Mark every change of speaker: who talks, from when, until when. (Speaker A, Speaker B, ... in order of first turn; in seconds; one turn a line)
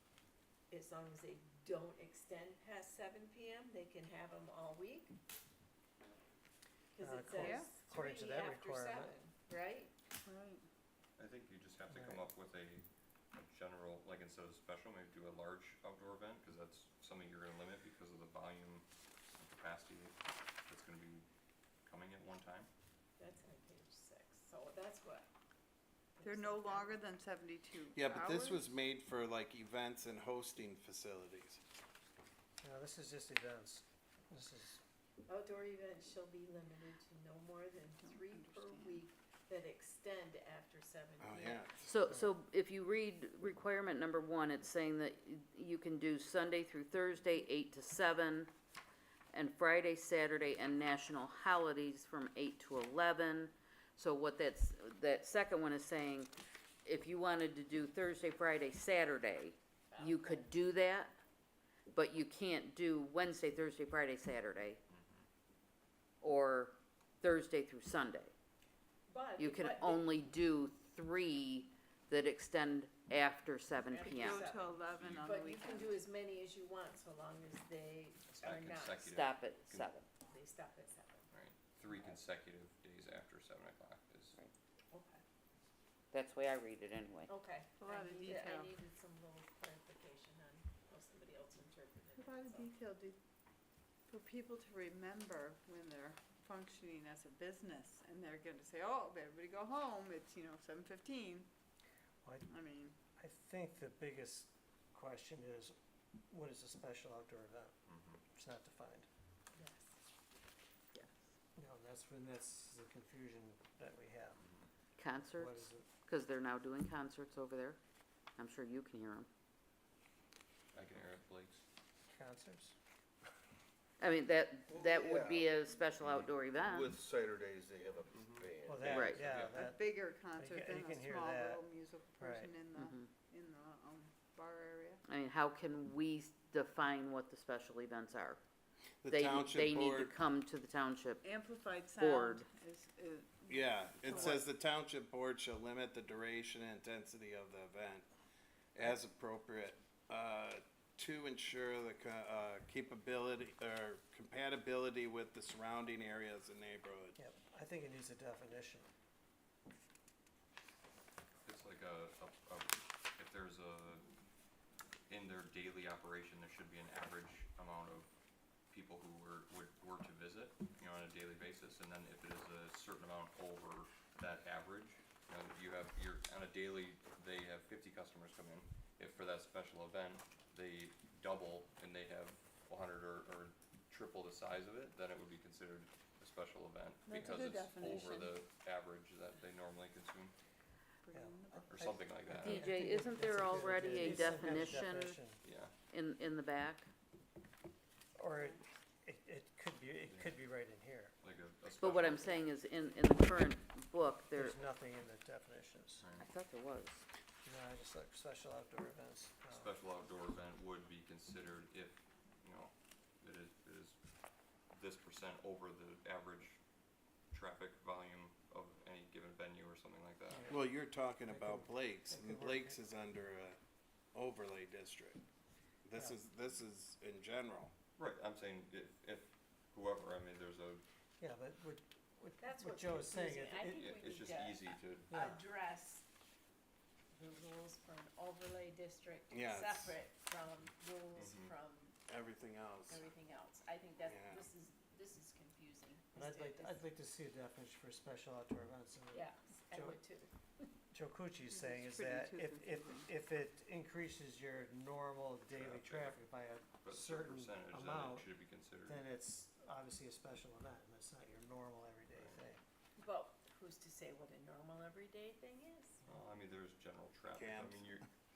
Speaker A: 0.7-5.2
Speaker A: 7.0-9.9
Speaker B: 7.0-9.1
Speaker C: 7.4-7.7
Speaker C: 10.3-10.7
Speaker D: 11.2-21.3
Speaker B: 11.9-12.2
Speaker D: 21.8-22.7
Speaker A: 23.2-25.3
Speaker A: 26.2-26.9
Speaker C: 26.2-28.8
Speaker E: 27.9-31.6
Speaker B: 32.6-34.8
Speaker A: 35.3-42.0
Speaker C: 38.0-39.0
Speaker E: 41.2-42.0
Speaker F: 41.9-48.5
Speaker F: 49.3-56.3
Speaker F: 56.9-61.2
Speaker A: 59.9-60.5
Speaker F: 61.9-64.8
Speaker D: 64.9-65.3
Speaker F: 66.2-68.3
Speaker A: 69.1-70.2
Speaker F: 69.4-74.5
Speaker A: 73.9-79.2
Speaker C: 73.9-76.0
Speaker D: 74.9-75.3
Speaker D: 78.3-79.9
Speaker F: 79.0-80.1
Speaker A: 80.2-81.3
Speaker D: 81.3-84.4
Speaker A: 84.9-85.2
Speaker F: 86.1-87.3
Speaker A: 87.3-92.7
Speaker C: 87.8-88.7
Speaker C: 92.2-93.2
Speaker C: 94.1-101.5
Speaker C: 102.5-103.0
Speaker B: 103.2-105.8
Speaker B: 106.3-107.8
Speaker D: 107.9-108.2
Speaker B: 108.3-109.1
Speaker A: 109.5-110.0
Speaker B: 111.6-114.4
Speaker D: 114.4-114.7
Speaker F: 115.0-117.8
Speaker B: 115.1-115.9
Speaker F: 118.4-119.3
Speaker D: 120.7-121.6
Speaker B: 122.1-122.8
Speaker F: 124.0-127.0
Speaker G: 124.7-125.5
Speaker G: 126.0-128.9
Speaker D: 128.1-128.5
Speaker B: 128.7-129.8
Speaker F: 128.8-129.2
Speaker D: 129.1-129.6
Speaker C: 129.4-135.0
Speaker B: 130.4-131.7
Speaker B: 132.2-132.6
Speaker F: 132.8-133.1
Speaker F: 135.1-138.4
Speaker E: 139.0-140.2
Speaker F: 139.1-141.2
Speaker C: 141.2-144.5
Speaker F: 142.0-142.5
Speaker E: 143.5-148.1
Speaker E: 148.8-157.2
Speaker B: 157.2-158.9
Speaker D: 161.4-164.1
Speaker D: 165.1-168.1
Speaker D: 168.7-190.3
Speaker C: 187.1-188.4
Speaker C: 191.0-192.3
Speaker B: 191.1-195.4
Speaker D: 191.7-192.7
Speaker F: 192.3-195.2
Speaker C: 193.8-194.4
Speaker D: 195.4-195.7
Speaker F: 195.9-196.9
Speaker B: 198.2-201.1
Speaker C: 198.3-198.6
Speaker D: 200.1-200.4
Speaker D: 201.2-202.4
Speaker F: 201.8-204.6
Speaker B: 204.4-206.0
Speaker D: 206.0-206.3
Speaker F: 206.2-207.1
Speaker B: 207.4-209.7
Speaker D: 209.5-214.0
Speaker D: 214.7-216.6
Speaker D: 217.3-220.5
Speaker B: 220.3-222.8
Speaker E: 220.5-223.6
Speaker E: 224.1-225.2
Speaker E: 225.8-227.7
Speaker D: 228.0-230.8
Speaker B: 231.2-233.9
Speaker A: 232.4-236.1
Speaker D: 233.7-235.3
Speaker B: 235.1-235.4
Speaker A: 237.1-242.0
Speaker E: 239.3-240.0
Speaker D: 241.2-241.6
Speaker E: 242.1-243.0
Speaker A: 242.9-246.8
Speaker E: 244.1-244.4
Speaker B: 246.2-250.0
Speaker A: 249.1-250.7
Speaker B: 250.9-258.3
Speaker C: 251.5-253.1
Speaker D: 255.4-256.2
Speaker D: 256.8-259.0
Speaker B: 258.9-262.6
Speaker D: 262.1-262.4
Speaker A: 263.0-266.0
Speaker D: 266.1-268.1
Speaker E: 267.3-268.0